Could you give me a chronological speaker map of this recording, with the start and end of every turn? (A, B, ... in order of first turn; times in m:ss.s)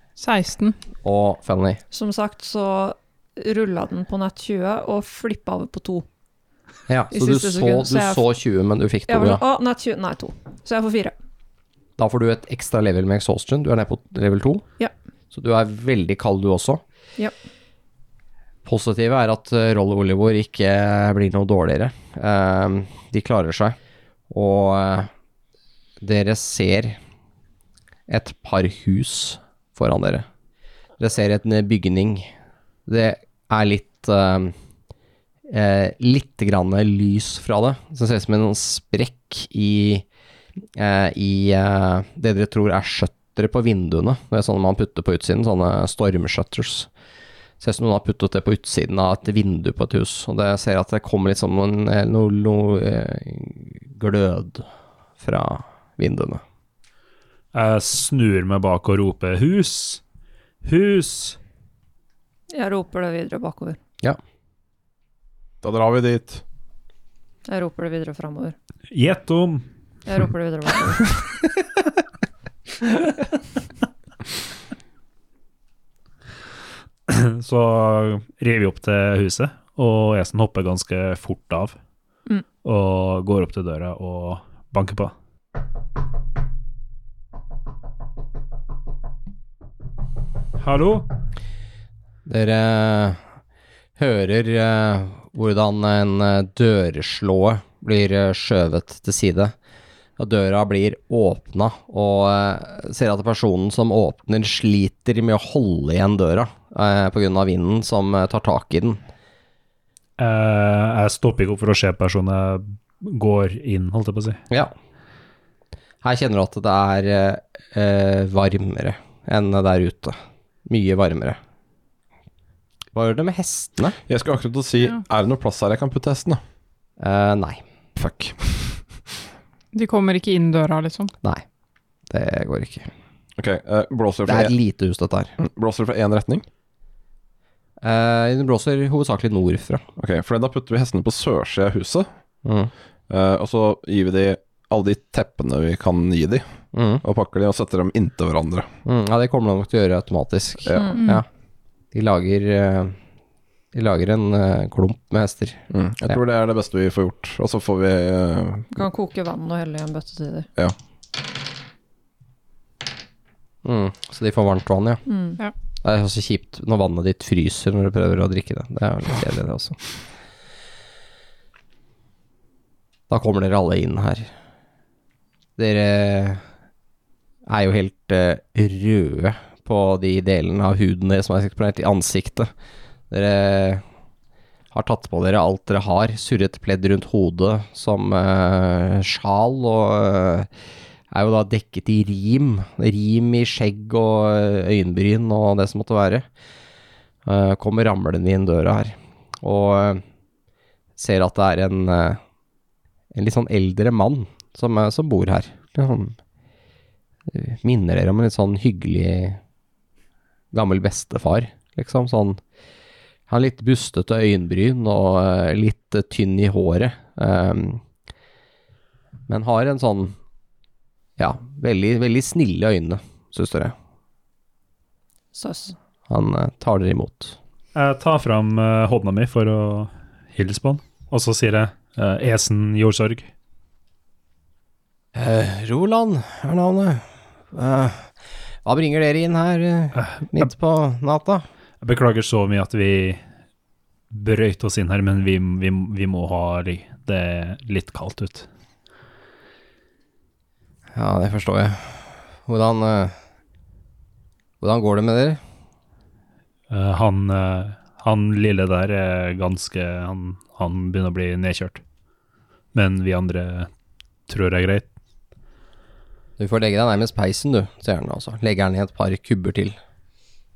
0:00.2-0:00.8 A
0:01.0-0:01.8 B
0:01.9-0:06.1 C
0:06.9-0:09.4 B
0:07.1-0:08.2 C
0:09.1-0:11.1 C
0:12.0-0:14.6 B
0:15.3-0:16.8 B
0:18.6-0:23.8 B
0:24.3-0:25.1 B
0:26.0-0:27.0 B
0:28.1-0:30.3 B
0:31.0-0:32.3 B
0:32.9-0:34.5 B
0:35.5-0:40.0 B
0:40.8-0:46.9 B
0:47.6-0:54.7 B
0:55.2-0:56.4 B
0:57.5-1:00.0 D
1:00.6-1:01.4 D
1:02.5-1:03.8 C
1:05.6-1:06.4 E
1:07.5-1:08.6 C
1:08.9-1:09.6 D
1:10.1-1:11.2 C
1:17.1-1:21.8 D
1:22.6-1:25.1 D
1:30.6-1:31.1 D
1:32.2-1:33.2 B
1:34.0-1:39.5 B
1:40.2-1:49.0 B
1:50.2-1:54.4 D
1:56.0-2:01.4 B
2:02.9-2:04.0 B
2:04.1-2:06.4 E
2:07.0-2:07.6 B
2:08.0-2:08.8 E
2:09.7-2:11.1 A
2:12.1-2:12.9 B
2:13.4-2:14.5 E
2:14.3-2:15.3 B
2:15.4-2:16.4 E
2:17.8-2:19.8 B
2:20.0-2:22.1 E
2:22.4-2:22.7 B
2:23.1-2:26.4 E
2:26.7-2:27.0 B
2:27.0-2:28.7 E
2:28.9-2:31.3 B
2:30.7-2:31.0 E
2:30.7-2:31.0 C
2:31.0-2:31.2 A
2:31.9-2:33.0 B
2:33.7-2:36.2 B
2:35.7-2:38.7 E
2:38.7-2:40.5 C
2:43.6-2:45.0 B
2:45.1-2:45.4 C
2:45.8-2:49.8 B
2:53.1-2:54.3 B
2:55.6-2:56.4 B
2:57.5-3:02.5 B
3:03.1-3:03.8 B
3:04.7-3:10.5 B
3:11.1-3:16.3 B
3:17.2-3:20.0 B
3:21.0-3:22.2 B
3:23.1-3:26.2 B
3:27.3-3:29.4 B
3:30.5-3:32.4 B
3:33.3-3:37.8 B
3:39.3-3:40.2 B
3:41.2-3:43.7 B
3:45.3-3:45.8 C
3:46.1-3:47.4 B
3:47.8-3:53.3 D
3:55.1-3:58.1 B
3:58.6-4:01.4 B
4:00.0-4:00.4 D
4:01.8-4:03.2 D
4:04.1-4:08.5 D
4:10.9-4:13.1 B
4:14.6-4:15.4 B
4:16.7-4:21.8 D
4:22.7-4:23.7 D
4:24.3-4:24.9 D
4:26.4-4:29.8 B